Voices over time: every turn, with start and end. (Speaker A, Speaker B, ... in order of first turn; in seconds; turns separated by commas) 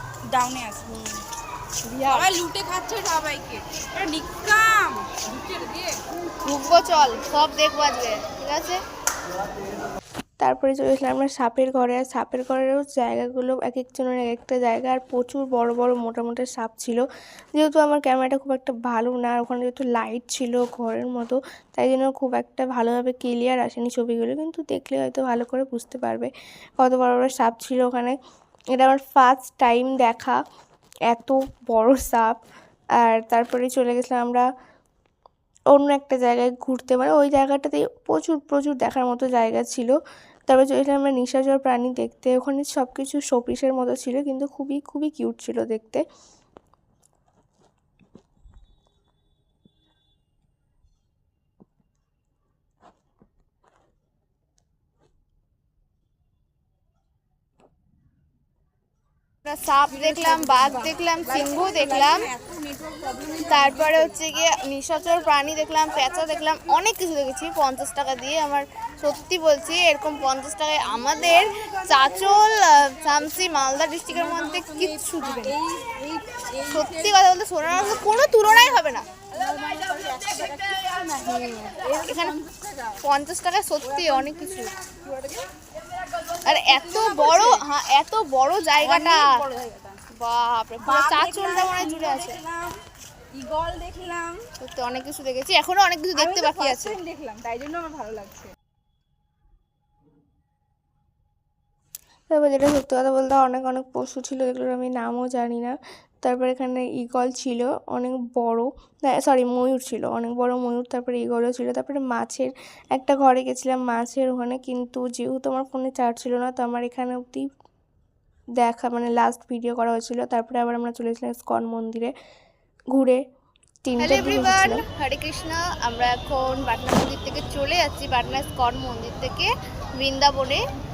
Speaker A: 0.3-1.2, Speaker B: 1.9-2.4, Speaker A: 2.1-6.0, Speaker B: 6.5-8.8, Speaker C: 10.4-28.2, Speaker C: 28.8-30.4, Speaker C: 31.1-32.4, Speaker C: 33.0-34.5, Speaker C: 35.7-40.0, Speaker C: 40.5-46.0, Speaker B: 59.5-62.2, Speaker A: 59.9-64.3, Speaker B: 63.4-75.6, Speaker A: 71.1-72.2, Speaker A: 74.1-83.0, Speaker B: 76.7-79.1, Speaker B: 82.0-82.4, Speaker B: 83.0-84.7, Speaker A: 83.8-85.5, Speaker B: 86.5-89.3, Speaker A: 86.7-87.6, Speaker A: 88.8-90.0, Speaker B: 90.1-92.4, Speaker A: 90.8-92.8, Speaker A: 93.3-94.5, Speaker B: 94.6-97.0, Speaker A: 96.2-98.5, Speaker C: 102.3-117.5, Speaker C: 118.6-122.1, Speaker C: 122.9-123.2, Speaker C: 123.8-124.8, Speaker B: 124.0-130.6